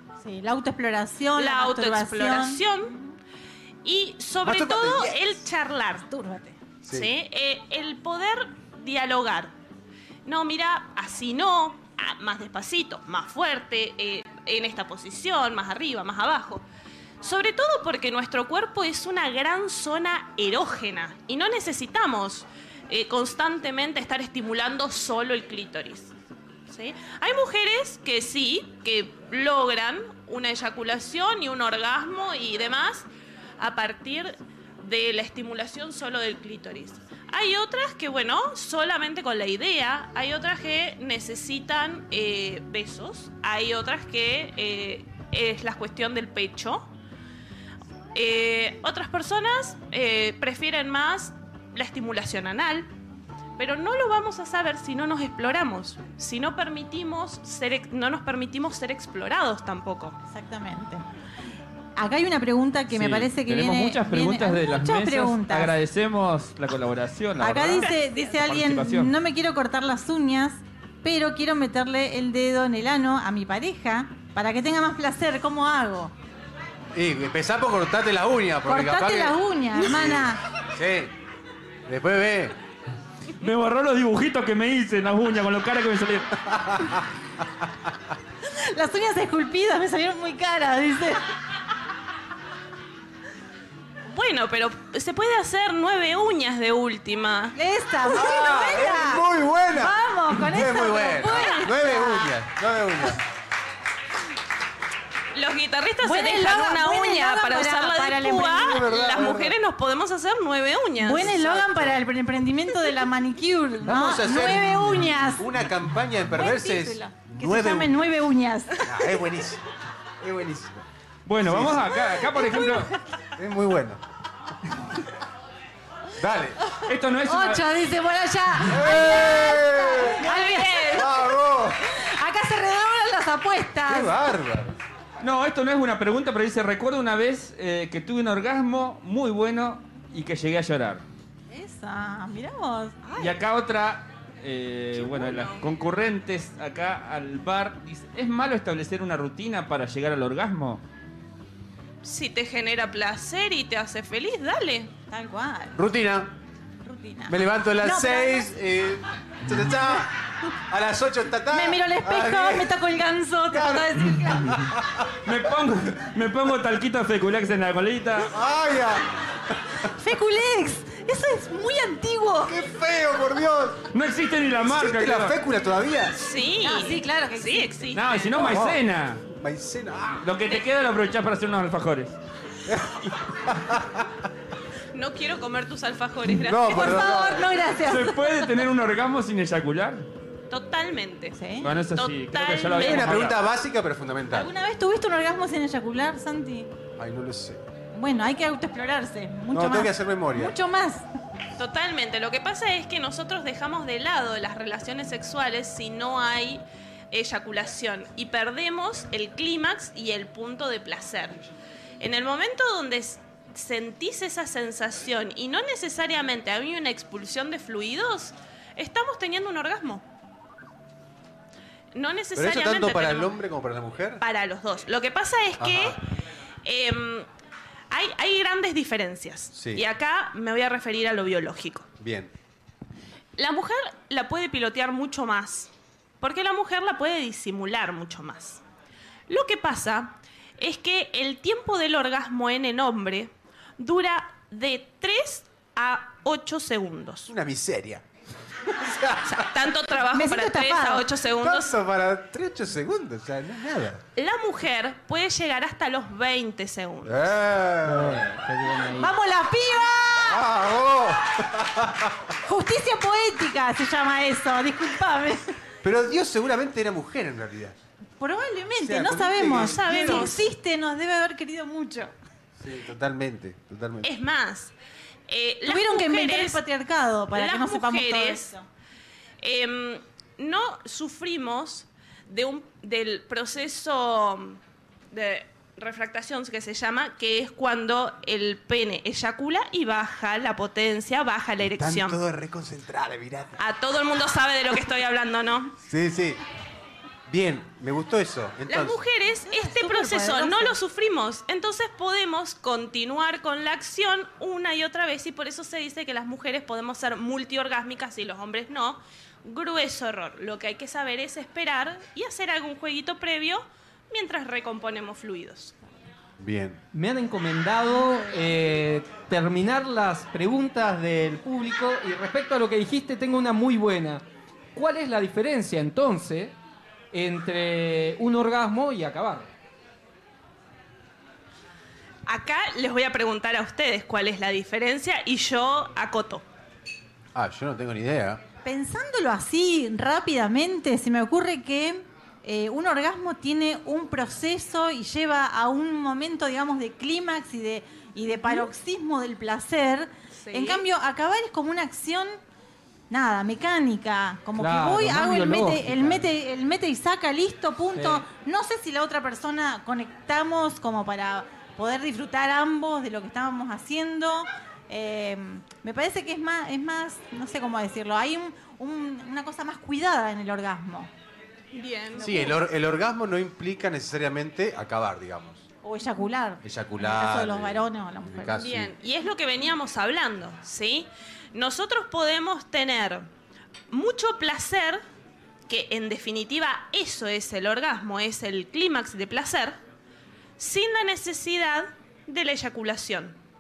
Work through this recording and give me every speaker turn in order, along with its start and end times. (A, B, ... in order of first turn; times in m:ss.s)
0:00.2-0:03.1 A
0:01.4-0:02.9 B
0:03.8-0:06.1 B
0:04.4-0:05.2 C
0:06.1-0:06.6 A
0:06.8-0:07.1 C
0:06.9-0:09.5 B
0:10.2-0:16.6 B
0:17.2-0:26.1 B
0:26.7-0:33.1 B
0:33.6-0:46.9 B
0:48.2-0:52.9 B
0:53.6-1:00.2 B
1:00.2-1:01.0 A
1:02.0-1:05.8 A
1:02.9-1:09.1 D
1:07.4-1:16.1 A
1:16.9-1:21.1 C
1:18.7-1:20.4 A
1:21.9-1:22.6 C
1:23.4-1:26.3 D
1:26.5-1:27.0 C
1:28.6-1:31.3 A
1:34.1-1:37.6 B
1:37.6-1:42.4 A
1:38.1-1:43.2 C
1:45.3-1:51.5 B
1:46.0-1:49.0 A
1:48.6-1:49.6 C
1:51.0-1:55.5 A
1:51.4-1:51.9 C
1:53.8-1:58.0 C
1:56.3-1:58.9 A
1:58.8-1:59.7 C
2:00.2-2:00.9 C
2:01.3-2:03.0 D
2:01.4-2:02.0 C
2:02.3-2:03.0 A
2:03.4-2:04.0 C
2:06.2-2:06.6 C
2:06.7-2:11.2 A
2:06.9-2:07.7 D
2:08.6-2:10.3 C
2:10.2-2:11.1 B
2:10.9-2:11.9 C
2:11.8-2:14.2 A
2:13.9-2:14.8 C
2:15.2-2:21.0 D
2:21.5-2:23.0 A
2:23.0-2:23.4 B
2:23.2-2:30.8 D
2:25.0-2:25.6 B
2:32.0-2:34.9 B
2:35.1-2:35.8 A
2:35.8-2:36.3 C
2:36.8-2:38.5 A
2:37.3-2:42.8 C
2:41.5-2:44.7 A
2:43.5-2:45.1 C
2:45.3-2:48.3 D
2:48.3-2:49.1 C
2:49.8-2:52.6 A
2:52.5-2:53.9 C
2:53.9-2:55.4 D
2:54.6-2:56.2 C
2:56.2-2:58.5 B
2:56.6-2:57.8 A
2:57.9-2:59.2 D
2:58.4-3:00.2 C
3:00.2-3:02.2 D
3:02.7-3:04.3 C
3:04.9-3:07.3 B
3:06.4-3:07.6 C
3:06.7-3:08.5 A
3:07.8-3:10.1 D
3:10.5-3:13.3 B
3:11.4-3:11.7 A
3:11.6-3:13.4 D
3:12.8-3:14.5 C
3:14.3-3:16.7 A
3:17.0-3:17.6 C
3:17.9-3:21.1 A
3:19.5-3:20.6 C
3:21.6-3:31.4 B
3:32.0-3:40.0 B
3:41.9-3:43.3 B
3:42.4-3:44.2 C
3:44.2-3:46.0 B
3:45.6-3:46.0 C
3:46.6-3:47.3 B
3:47.9-3:51.9 B
3:49.5-3:49.8 C
3:52.0-3:52.3 C
3:53.4-3:58.6 B
3:59.3-4:07.3 B
4:07.3-4:08.0 C
4:08.6-4:09.5 C
4:09.3-4:11.8 B
4:10.1-4:11.1 A
4:11.4-4:14.0 C
4:14.2-4:17.2 B
4:17.0-4:18.3 C
4:17.8-4:19.1 E
4:19.0-4:20.4 A
4:20.2-4:22.3 C
4:22.4-4:25.5 A
4:25.8-4:27.8 C
4:28.2-4:32.1 A
4:28.8-4:30.4 C
4:29.5-4:30.5 B
4:32.6-4:34.1 C
4:34.0-4:34.7 B
4:35.3-4:36.6 B
4:35.7-4:38.7 A
4:37.3-4:38.5 B
4:39.4-4:44.6 B
4:45.1-4:52.2 B
4:51.6-4:53.6 C
4:53.6-4:55.8 B
4:55.8-4:56.4 C
4:57.3-4:59.0 C
4:58.7-5:15.8 B
4:59.4-5:00.8 A
5:16.4-5:16.8 C
5:16.9-5:26.6 E
5:27.1-5:29.5 E
5:32.3-5:36.4 B
5:37.4-5:38.4 C
5:38.6-5:52.4 A
5:50.3-5:50.9 B
5:53.1-6:11.1 A
5:54.6-5:56.3 E
5:57.9-5:58.2 E
6:11.7-6:12.5 B
6:12.2-6:15.6 C
6:15.8-6:18.6 A
6:16.6-6:18.9 C
6:18.6-6:23.3 B
6:23.9-6:25.0 B
6:25.7-6:29.8 B
6:30.6-6:33.4 B